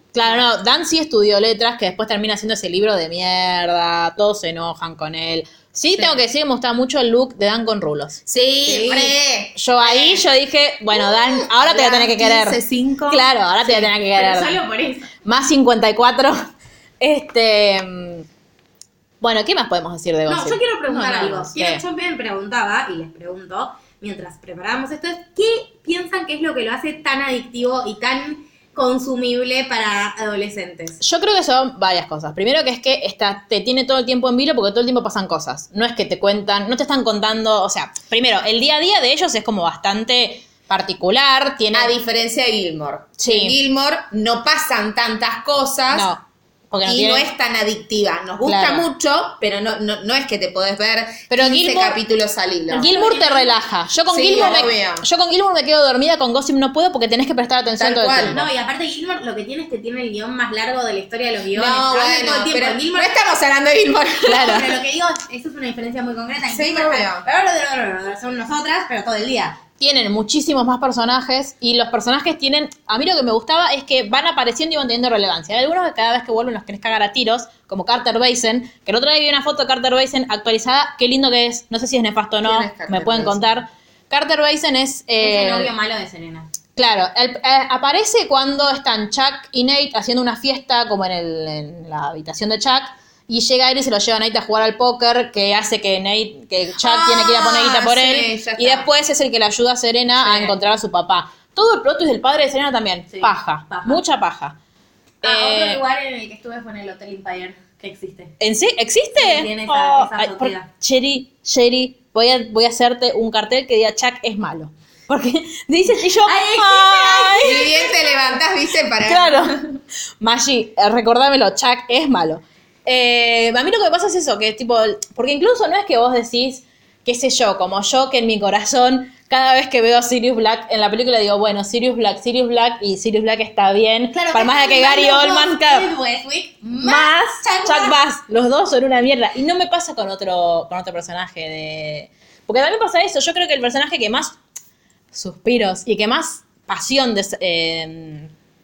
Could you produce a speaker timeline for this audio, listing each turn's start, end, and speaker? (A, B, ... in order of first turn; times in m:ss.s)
0:00.1-0:08.2 A
0:08.3-0:10.2 B
0:08.6-0:09.2 C
0:09.6-0:14.6 A
0:11.1-0:13.2 B
0:13.6-0:15.1 C
0:15.2-0:16.5 A
0:17.0-0:18.2 A
0:19.2-0:21.8 A
0:20.3-0:31.0 C
0:31.0-0:42.0 A
0:41.7-0:46.1 B
0:43.2-0:43.6 A
0:45.9-0:47.3 A
0:46.8-0:52.9 B
0:48.4-0:48.9 A
0:51.3-0:52.0 A
0:52.7-0:53.6 C
0:52.7-0:58.4 A
0:54.1-0:55.0 B
0:57.8-0:58.5 B
0:58.3-1:03.1 C
1:01.5-1:04.6 B
1:04.3-1:04.7 A
1:04.3-1:09.6 C
1:06.5-1:07.2 B
1:09.8-1:25.7 A
1:22.4-1:23.6 B
1:25.2-1:26.5 C
1:26.8-1:44.6 A
1:36.8-1:38.9 B
1:40.2-1:40.5 B
1:43.1-1:44.0 C
1:45.2-1:45.8 A
1:45.2-1:48.3 C
1:48.4-1:57.8 A
1:49.2-1:50.7 C
1:55.9-1:58.2 C
1:57.4-1:59.7 B
1:59.0-1:59.6 A
2:00.2-2:15.9 A
2:14.1-2:18.0 C
2:16.8-2:24.4 A
2:25.1-2:28.3 A